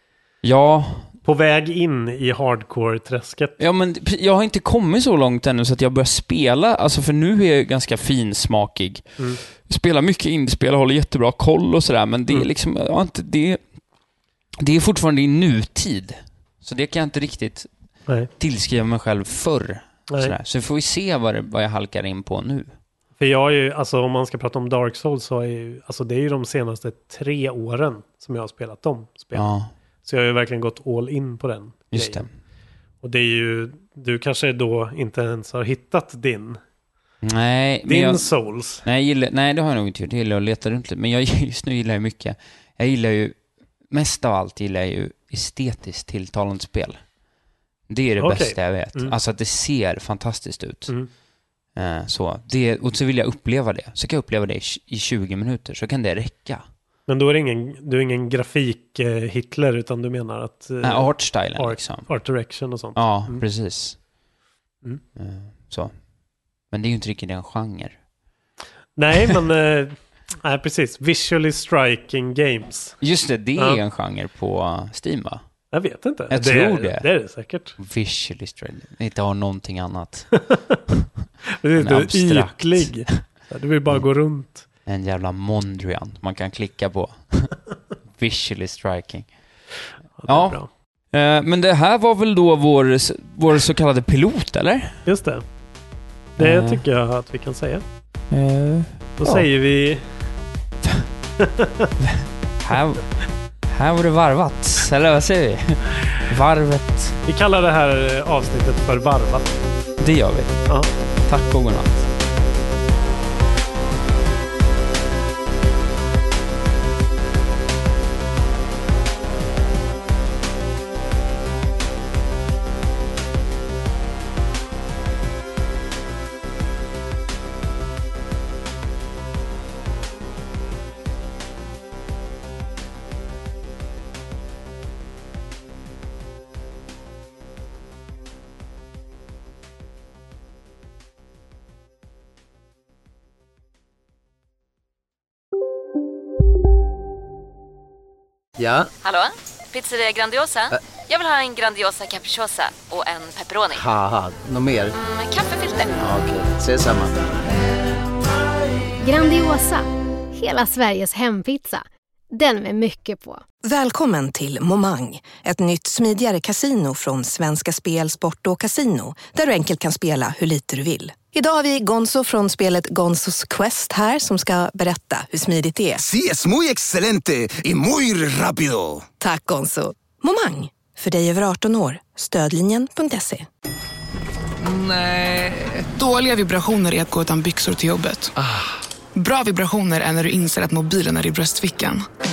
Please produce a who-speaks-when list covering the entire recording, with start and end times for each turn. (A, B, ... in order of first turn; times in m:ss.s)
0:00.4-0:01.1 A
0:01.2-0:03.6 B
0:03.6-0:13.6 A
0:14.6-0:17.7 A
0:18.4-0:22.7 A
0:23.2-0:29.5 B
0:29.3-0:29.7 A
0:30.0-0:32.3 B
0:31.9-0:32.3 A
0:33.0-0:36.6 B
0:37.2-0:38.3 A
0:37.9-0:38.8 B
0:38.8-0:43.3 A
0:43.9-0:47.0 A
0:47.9-0:50.9 A
0:48.2-0:49.1 B
0:51.8-0:56.6 A
0:57.1-1:03.4 B
1:00.8-1:02.1 A
1:02.9-1:04.0 A
1:05.2-1:05.9 A
1:06.7-1:07.9 A
1:09.0-1:13.0 B
1:13.0-1:15.4 A
1:15.7-1:17.7 B
1:16.3-1:17.1 A
1:17.8-1:20.3 A
1:20.3-1:21.0 B
1:21.5-1:24.6 B
1:21.8-1:23.2 A
1:24.8-1:27.6 A
1:28.2-1:29.3 A
1:30.2-1:30.7 B
1:30.2-1:30.6 A
1:31.1-1:35.0 A
1:35.0-1:35.4 B
1:36.4-1:36.8 A
1:36.4-1:37.8 B
1:38.3-1:39.4 A
1:39.2-1:40.0 B
1:41.4-1:41.9 B
1:42.0-1:43.1 A
1:43.6-1:47.2 A
1:47.3-1:49.5 B
1:50.0-1:50.7 A
1:51.2-1:52.1 A
2:28.6-2:28.9 C
2:29.0-2:33.8 D
2:33.7-2:34.9 C
2:34.9-2:36.1 D
2:36.0-2:37.2 C
2:39.0-2:43.4 E
2:43.6-2:56.0 F
2:56.0-2:59.1 G
2:59.2-3:03.5 F
3:04.6-3:05.8 G
3:05.9-3:08.3 H
3:09.1-3:12.0 H